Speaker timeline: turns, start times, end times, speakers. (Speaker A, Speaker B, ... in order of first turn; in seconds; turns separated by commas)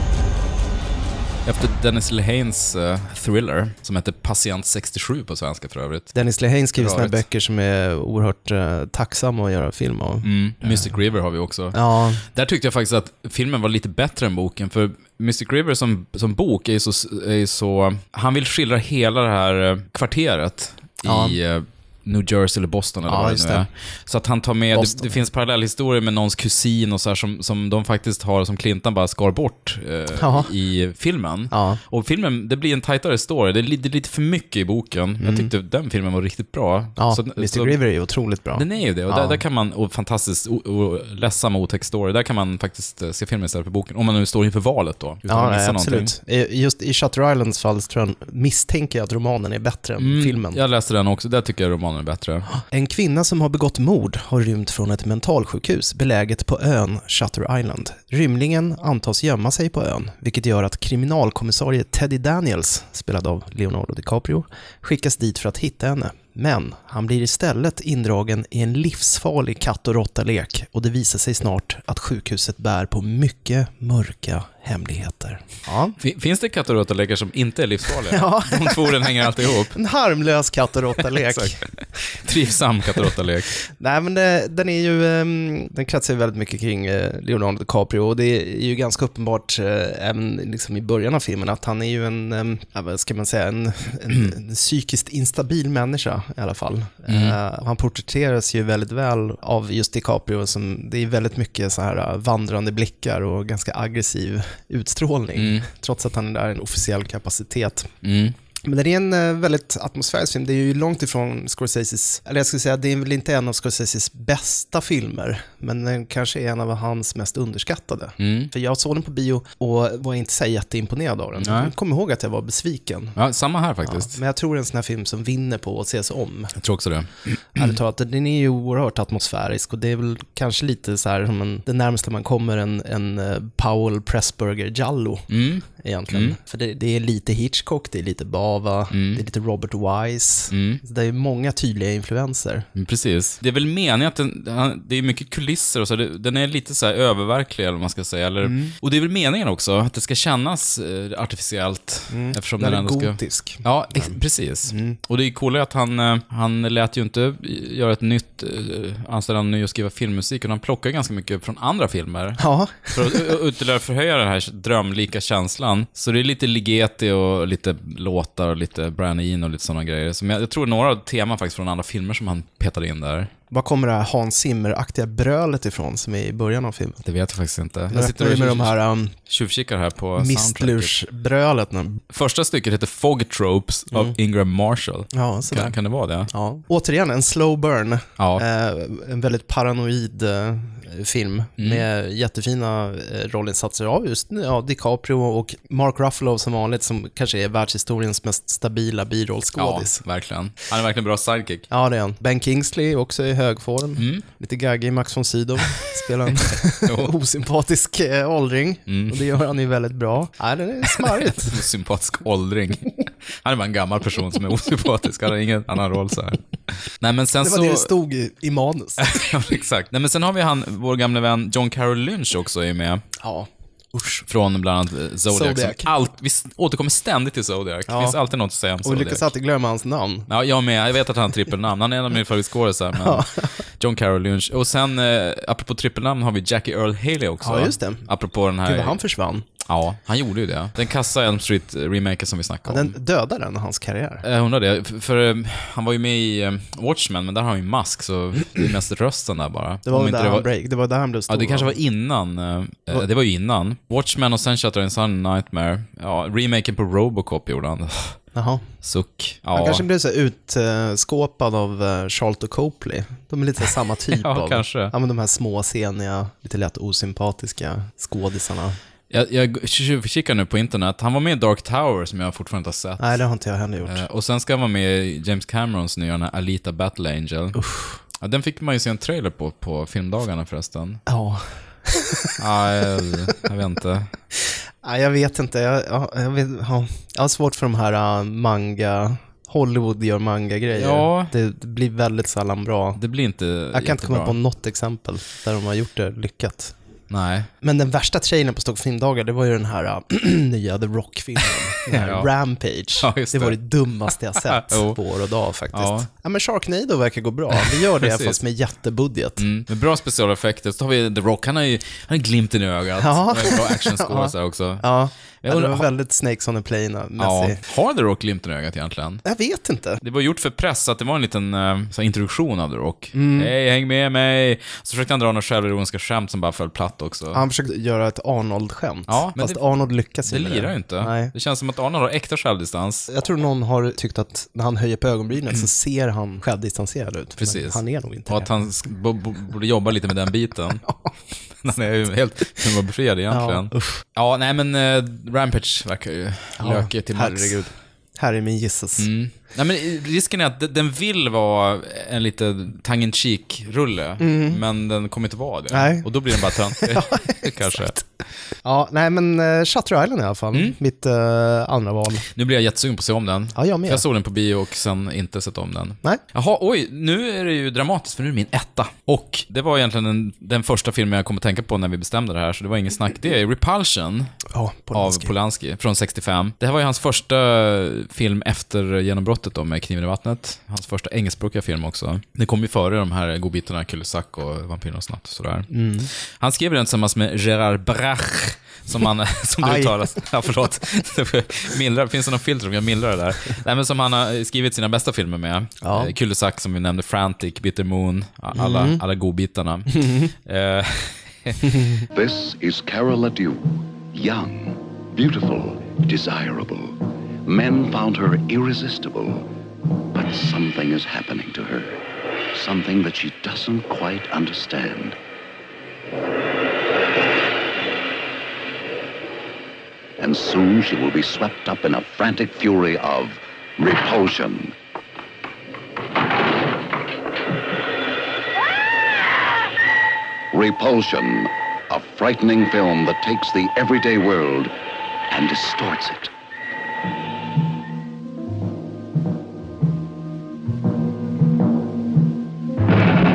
Speaker A: 1.4-6.1, Speaker B: 6.1-10.9, Speaker A: 6.8-7.2, Speaker A: 10.2-37.8, Speaker B: 11.7-12.2, Speaker B: 21.1-21.4, Speaker B: 23.1-23.7, Speaker B: 24.7-25.1, Speaker B: 30.2-30.5, Speaker B: 31.5-31.8, Speaker B: 35.2-35.5, Speaker B: 37.0-39.4, Speaker A: 38.5-46.1, Speaker B: 45.3-50.6, Speaker A: 50.0-52.5, Speaker B: 52.5-76.0, Speaker A: 76.0-79.8, Speaker B: 78.1-79.2, Speaker B: 79.7-81.6, Speaker A: 81.0-83.5, Speaker B: 83.7-107.9, Speaker A: 97.1-97.4, Speaker A: 105.4-105.7, Speaker A: 108.0-108.3, Speaker B: 108.6-123.2, Speaker A: 118.2-118.5, Speaker A: 121.4-121.7, Speaker A: 123.2-124.2, Speaker B: 123.8-126.5, Speaker A: 126.6-127.8, Speaker B: 127.6-142.7, Speaker A: 135.3-136.4, Speaker A: 138.9-139.2, Speaker A: 140.5-140.8, Speaker A: 142.8-173.3, Speaker B: 148.4-148.7, Speaker B: 152.1-154.2, Speaker B: 154.7-155.0, Speaker B: 162.4-163.3, Speaker B: 173.5-177.0, Speaker A: 177.0-180.9, Speaker B: 177.9-179.2, Speaker B: 180.2-182.0, Speaker A: 182.1-186.3, Speaker B: 185.1-185.8, Speaker B: 186.3-200.0, Speaker A: 188.2-188.4, Speaker A: 191.6-191.8, Speaker A: 199.6-201.7, Speaker B: 201.7-211.6, Speaker A: 204.0-204.2, Speaker A: 206.2-207.1, Speaker A: 208.9-209.2, Speaker A: 210.9-216.4, Speaker A: 217.0-217.9, Speaker B: 217.4-219.2, Speaker A: 219.0-223.0, Speaker B: 223.2-224.2, Speaker A: 224.3-229.3, Speaker B: 225.3-225.9, Speaker B: 227.9-228.2, Speaker B: 228.8-230.3, Speaker A: 230.3-233.2, Speaker B: 233.0-233.5, Speaker A: 233.8-239.0, Speaker B: 237.4-238.1, Speaker B: 238.7-239.5, Speaker A: 239.7-242.9, Speaker B: 242.7-244.2, Speaker A: 244.2-250.5, Speaker B: 249.9-251.8, Speaker A: 251.3-258.2, Speaker B: 258.4-258.6, Speaker A: 258.8-259.8, Speaker B: 259.5-268.8, Speaker A: 264.1-264.9, Speaker A: 269.1-273.2, Speaker B: 273.0-274.0, Speaker A: 273.8-277.6, Speaker B: 277.6-278.0, Speaker A: 278.2-281.0, Speaker B: 281.1-282.3, Speaker A: 282.4-284.1, Speaker B: 284.8-293.0, Speaker A: 290.7-291.3, Speaker A: 293.0-294.4, Speaker B: 293.7-296.7, Speaker A: 297.1-297.5, Speaker B: 297.6-309.4, Speaker A: 301.9-302.3, Speaker A: 303.0-303.6, Speaker A: 304.1-305.0, Speaker A: 305.7-306.1, Speaker A: 307.5-308.4, Speaker A: 309.4-314.9, Speaker B: 313.0-317.6, Speaker A: 315.4-315.9, Speaker A: 317.2-319.2, Speaker B: 319.2-320.0, Speaker A: 320.0-327.4, Speaker B: 323.1-323.5, Speaker B: 327.3-331.3, Speaker A: 329.1-329.6, Speaker A: 330.3-333.1, Speaker B: 333.1-338.5, Speaker A: 337.4-340.8, Speaker A: 341.6-347.7, Speaker B: 343.3-344.0, Speaker B: 346.6-349.1, Speaker A: 349.0-358.0, Speaker B: 354.2-354.6, Speaker B: 355.7-358.0, Speaker B: 358.6-362.2, Speaker A: 362.2-374.3, Speaker B: 363.6-364.0, Speaker B: 374.5-375.3, Speaker A: 374.9-399.9, Speaker B: 385.7-386.1, Speaker B: 389.6-390.0, Speaker B: 395.8-396.1, Speaker B: 398.6-399.0, Speaker B: 399.9-400.3, Speaker A: 400.4-401.6, Speaker B: 401.6-402.1, Speaker C: 402.1-406.9, Speaker C: 407.5-409.5, Speaker C: 410.1-412.0, Speaker C: 412.5-415.2, Speaker C: 420.2-424.7, Speaker C: 430.5-434.7, Speaker C: 435.3-436.3